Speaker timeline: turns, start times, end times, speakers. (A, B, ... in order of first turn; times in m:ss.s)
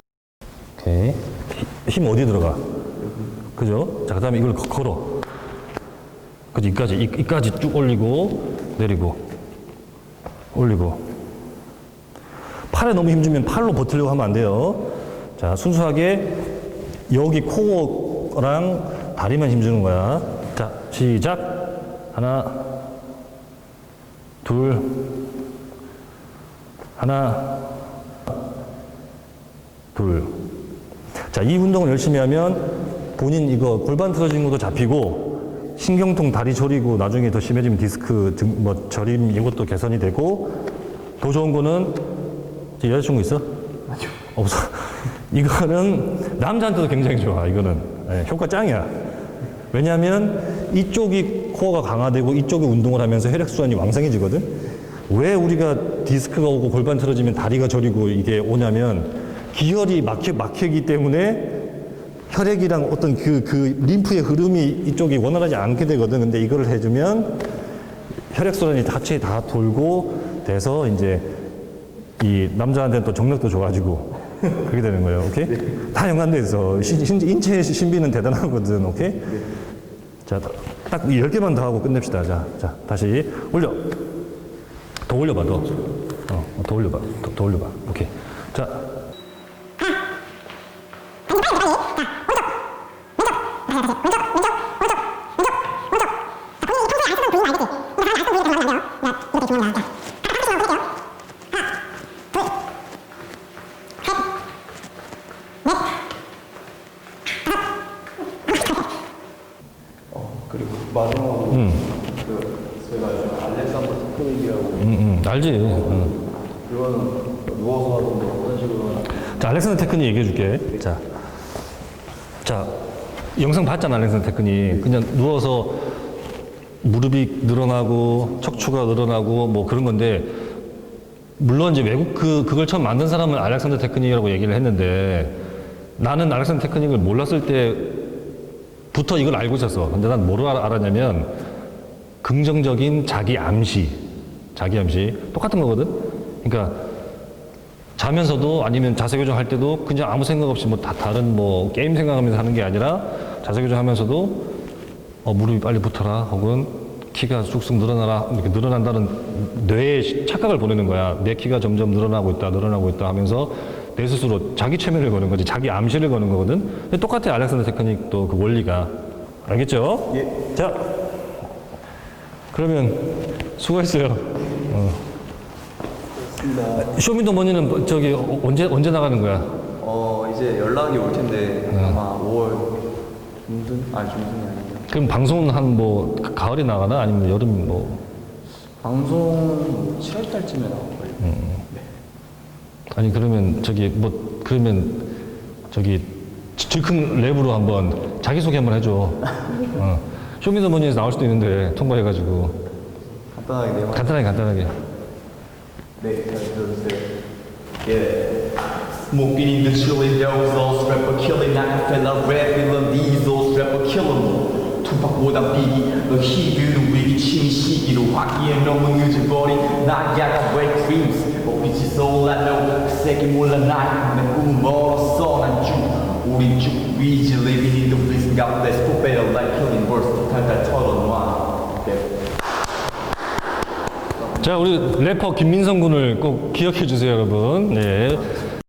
0:00.8-0:02.6 A
0:03.5-0:05.2 A
0:06.5-0:09.2 A
0:10.5-0:11.0 A
0:12.7-0:16.4 A
0:17.1-0:22.8 A
0:24.4-0:25.2 A
0:27.0-0:27.8 A
0:29.9-0:30.4 A
0:31.3-0:40.5 A
0:41.2-0:42.0 A
0:42.8-0:43.4 A
0:44.3-0:48.9 A
0:49.7-0:54.5 A
0:55.1-1:01.7 A
1:02.3-1:07.4 A
1:08.3-1:11.2 A
1:12.2-1:19.4 A
1:20.2-1:24.0 A
1:25.0-1:28.9 A
1:50.1-1:54.9 B
1:51.5-1:51.9 A
1:54.8-1:56.2 A
1:56.6-1:59.4 B
1:59.2-2:01.0 A
2:02.4-2:02.7 A
2:03.4-2:05.8 A
2:06.8-2:10.3 A
2:11.4-2:15.4 A
2:16.0-2:18.0 A
2:18.9-2:21.3 A
2:22.2-2:24.0 A
2:24.5-2:26.8 A
2:28.0-2:34.5 A
2:35.2-2:48.9 A
2:49.4-2:51.0 A
2:50.1-2:50.3 B
2:52.5-2:55.0 A
2:56.2-2:56.9 B
2:56.8-2:59.5 A
2:59.8-3:02.8 B
3:01.7-3:02.0 A
3:03.4-3:04.9 B
3:04.9-3:08.0 A
3:08.8-3:11.8 B
3:11.2-3:11.6 A
3:12.9-3:15.1 A
3:15.7-3:22.6 A
3:23.3-3:24.2 B
3:23.9-3:24.8 A
3:26.0-3:27.1 B
3:27.8-3:52.2 B
3:54.3-3:58.3 A